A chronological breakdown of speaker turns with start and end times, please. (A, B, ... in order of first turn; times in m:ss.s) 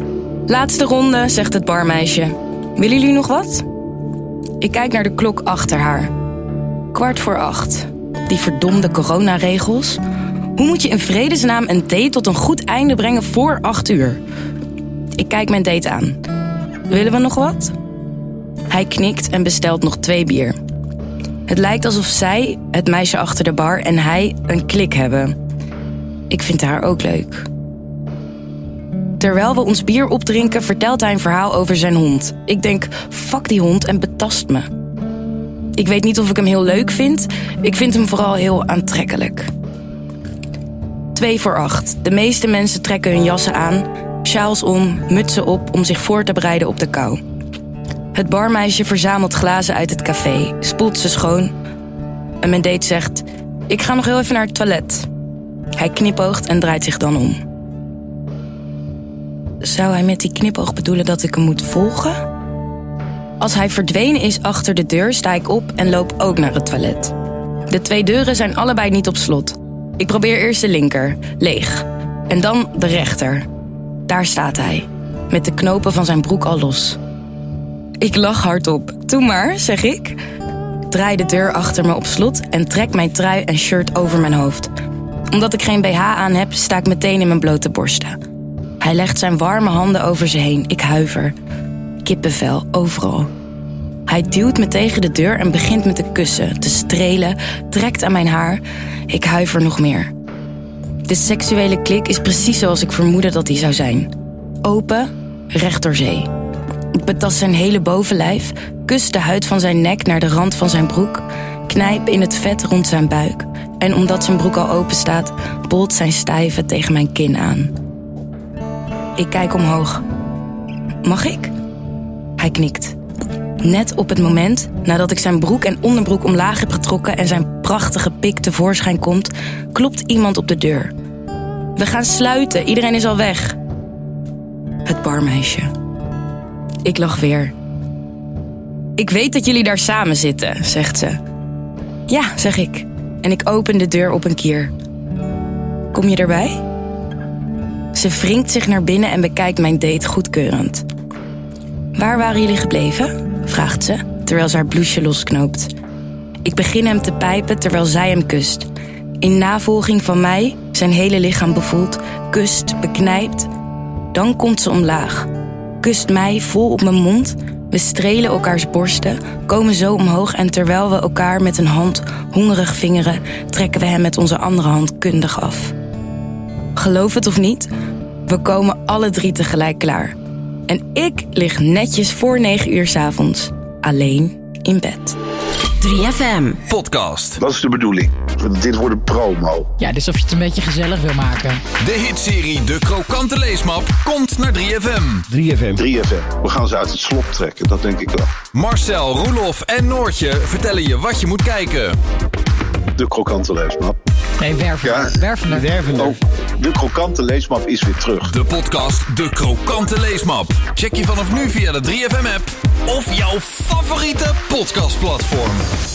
0:00.5-0:03.6 A
0:04.6-0:06.1 A
0:06.9-0:10.0 A
0:10.6-0:14.2 A
0:15.2-0:16.2 A
0:16.9-0:17.7 A
0:18.7-0:20.6 A
0:21.5-0:25.4 A
0:26.3-0:27.5 A
0:29.2-0:34.7 A
0:35.8-0:39.5 A
0:41.1-0:47.2 A
0:48.1-0:51.5 A
0:52.4-0:55.1 A
0:55.7-0:57.4 A
0:59.6-1:02.2 A
1:03.4-1:07.1 A
1:07.7-1:13.4 A
1:14.1-1:17.0 A
1:18.0-1:20.2 A
1:20.9-1:24.7 A
1:25.3-1:28.2 A
1:28.8-1:31.3 A
1:32.0-1:33.3 A
1:34.1-1:40.1 A
1:41.1-1:44.1 A
1:44.6-1:46.3 A
1:46.9-1:57.7 A
1:59.2-2:00.0 A
2:01.0-2:01.5 A
2:02.4-2:03.0 A
2:03.6-2:10.9 A
2:11.8-2:13.6 A
2:14.9-2:15.7 A
2:16.8-2:17.5 A
2:19.0-2:21.2 A
2:22.1-2:24.7 A
2:25.9-2:26.6 A
2:27.9-2:30.8 A
2:32.0-2:35.7 A
2:36.4-2:38.7 A
2:39.2-2:43.5 A
2:44.1-2:45.3 A
2:45.8-2:55.7 A
2:56.8-2:57.7 A
2:58.3-3:00.2 A
3:00.7-3:05.2 A
3:05.8-3:06.6 B
3:06.6-3:07.4 C
3:07.4-3:09.7 D
3:09.8-3:11.6 B
3:11.8-3:15.3 C
3:15.7-3:18.3 D
3:18.5-3:22.0 C
3:23.0-3:24.0 D
3:24.4-3:26.1 B
3:24.8-3:25.2 D
3:25.8-3:28.4 D
3:28.2-3:35.7 C